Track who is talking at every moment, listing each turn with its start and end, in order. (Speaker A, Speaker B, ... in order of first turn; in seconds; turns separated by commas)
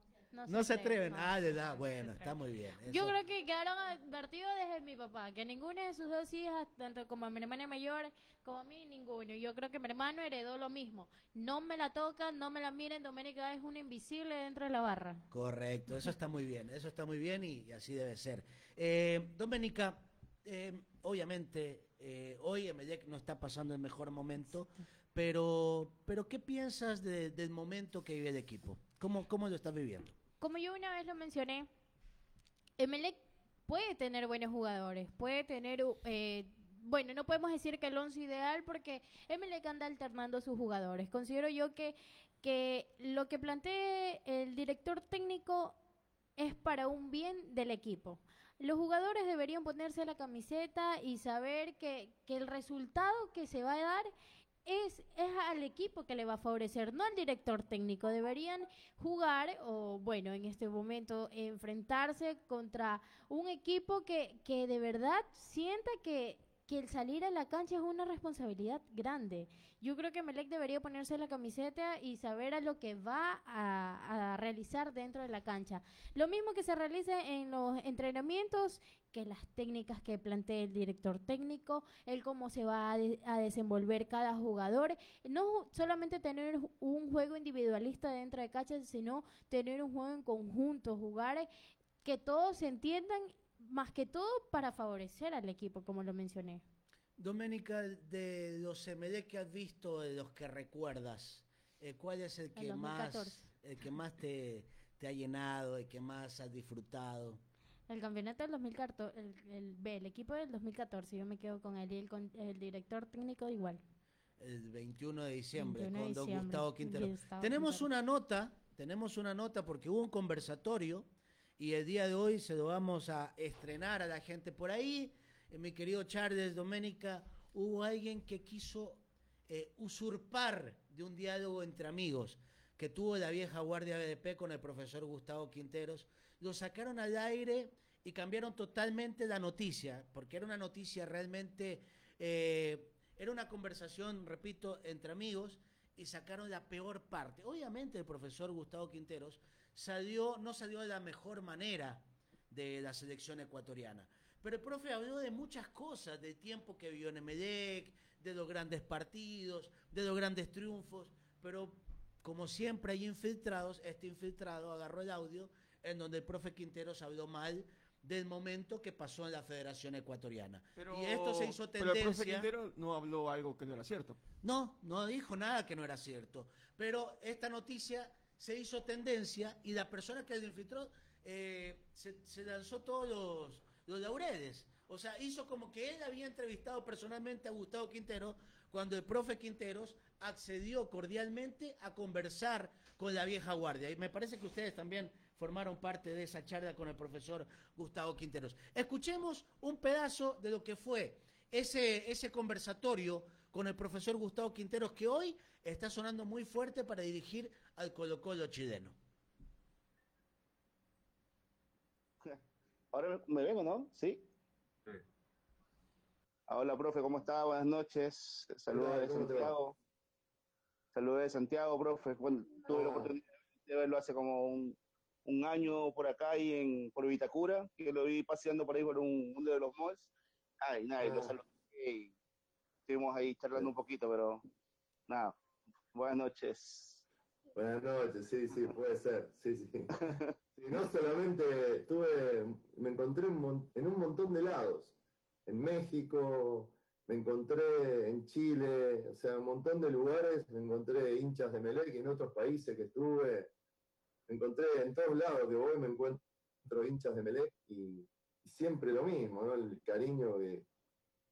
Speaker A: 0.3-15.2, Speaker B: 0.5-3.1, Speaker B: 15.3-30.1, Speaker A: 30.4-31.7, Speaker A: 32.8-45.8, Speaker A: 46.4-54.1, Speaker A: 54.6-91.5, Speaker A: 92.0-96.6, Speaker B: 97.2-107.4, Speaker A: 102.5-103.5, Speaker A: 107.9-113.8, Speaker B: 114.4-172.5, Speaker A: 115.5-117.9, Speaker C: 170.8-174.2, Speaker B: 174.4-208.9, Speaker D: 212.9-214.2, Speaker D: 216.5-219.7, Speaker E: 218.7-219.6, Speaker D: 220.9-232.1, Speaker E: 222.7-223.1, Speaker E: 231.0-231.4, Speaker D: 232.9-234.4, Speaker D: 235.1-235.4, Speaker D: 235.9-237.0, Speaker E: 237.6-239.9, Speaker E: 240.6-244.9, Speaker E: 245.5-253.5, Speaker E: 254.3-260.7